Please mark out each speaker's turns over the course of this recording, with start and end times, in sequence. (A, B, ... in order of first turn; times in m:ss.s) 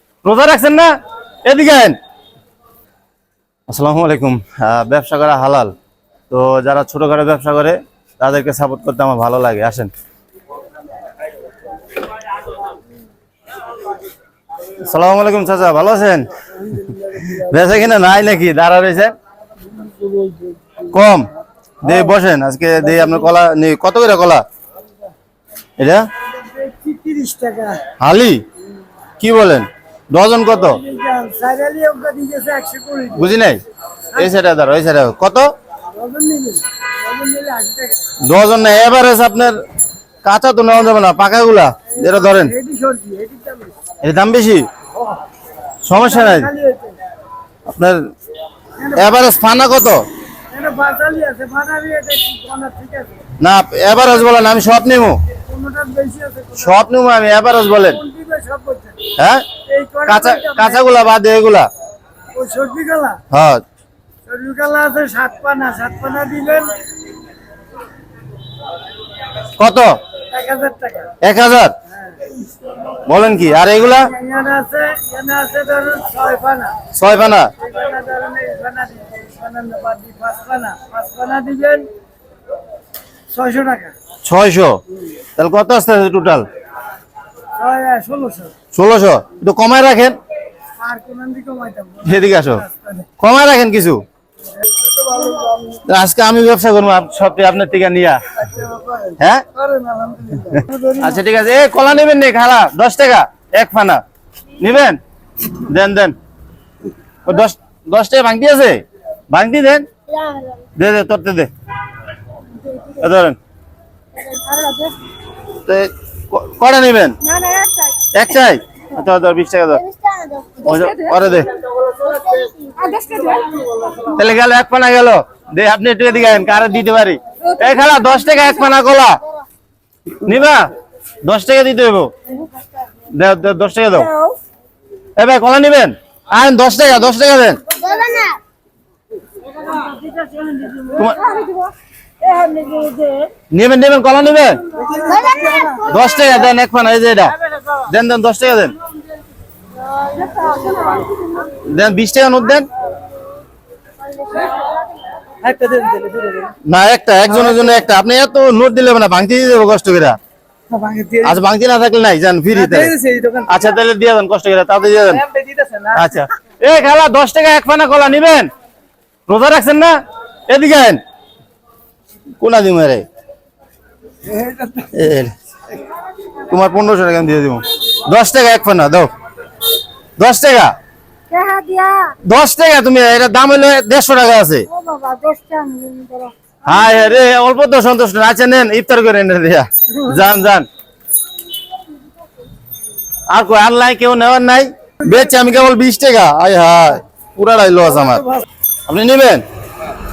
0:00.2-0:00.9 A
0:01.5-0:02.0 A
0:03.7-0:05.7 A
0:06.3-0:09.9 A
0:14.8-0:16.3 A
0:16.6-0:17.5 B
0:17.4-0:19.1 A
0:19.7-0:20.9 B
0:20.9-0:21.3 A
0:21.8-0:24.4 A
0:22.8-0:23.2 B
0:25.8-0:26.0 A
0:26.5-0:27.8 B
0:28.0-0:28.4 A
0:29.2-0:30.8 A
0:30.6-0:33.3 B
0:33.2-0:33.6 A
0:34.2-0:35.5 A
0:35.9-0:38.1 B
0:38.2-0:39.6 A
0:40.2-0:42.5 A
0:42.0-0:43.7 B
0:44.0-0:44.7 A
0:45.8-0:46.5 A
0:45.9-0:47.0 B
0:47.7-0:48.0 A
0:48.8-0:49.1 B
0:49.0-0:50.0 A
0:50.5-0:53.2 B
0:53.4-0:55.2 A
0:55.5-0:56.8 B
0:56.6-0:58.0 A
0:57.8-0:59.0 B
0:59.2-0:59.4 A
0:59.7-1:01.1 B
1:00.1-1:01.7 A
1:02.4-1:03.2 B
1:03.3-1:03.6 A
1:04.3-1:06.8 B
1:09.6-1:10.0 A
1:10.3-1:11.1 B
1:11.2-1:11.7 A
1:11.9-1:12.2 B
1:13.1-1:14.1 A
1:14.0-1:16.8 B
1:17.0-1:17.5 A
1:17.6-1:21.9 B
1:23.3-1:23.9 B
1:24.2-1:24.8 A
1:25.4-1:26.4 A
1:27.6-1:28.5 B
1:28.7-1:30.2 A
1:30.8-1:33.1 B
1:32.0-1:32.6 A
1:33.2-1:34.0 A
1:34.6-1:35.8 B
1:35.9-1:38.2 A
1:38.4-1:41.2 B
1:41.0-1:44.0 A
1:44.6-1:46.2 A
1:47.2-1:49.9 A
1:50.1-1:50.7 C
1:50.8-1:51.5 A
1:53.0-1:53.4 A
1:54.2-1:55.0 C
1:55.7-1:57.2 A
1:57.2-1:58.1 C
1:58.1-1:59.8 A
1:59.8-2:01.2 C
2:00.6-2:01.5 A
2:01.9-2:03.5 C
2:04.1-2:09.2 A
2:10.2-2:10.7 A
2:11.2-2:12.1 A
2:13.1-2:14.1 A
2:15.2-2:17.6 A
2:17.7-2:18.4 C
2:20.1-2:20.5 B
2:20.7-2:21.7 C
2:20.9-2:21.2 A
2:22.3-2:23.3 C
2:23.5-2:24.6 A
2:24.8-2:25.9 B
2:25.0-2:26.3 C
2:25.9-2:28.8 A
2:30.0-2:31.2 C
2:30.4-2:31.0 B
2:31.6-2:32.7 A
2:35.4-2:36.5 B
2:36.6-2:40.2 A
2:40.7-2:41.4 B
2:41.2-2:42.9 A
2:42.5-2:43.6 B
2:43.5-2:45.2 A
2:45.0-2:46.2 B
2:46.0-2:48.5 A
2:49.3-2:50.0 A
2:50.5-2:51.0 A
2:52.4-2:53.1 A
2:54.3-2:54.9 B
2:54.9-2:55.3 A
2:56.5-2:59.1 A
3:00.2-3:00.8 A
3:01.3-3:02.2 C
3:02.2-3:04.7 A
3:04.7-3:06.3 C
3:06.7-3:10.7 A
3:13.3-3:18.2 A
3:18.0-3:18.4 B
3:18.9-3:19.4 A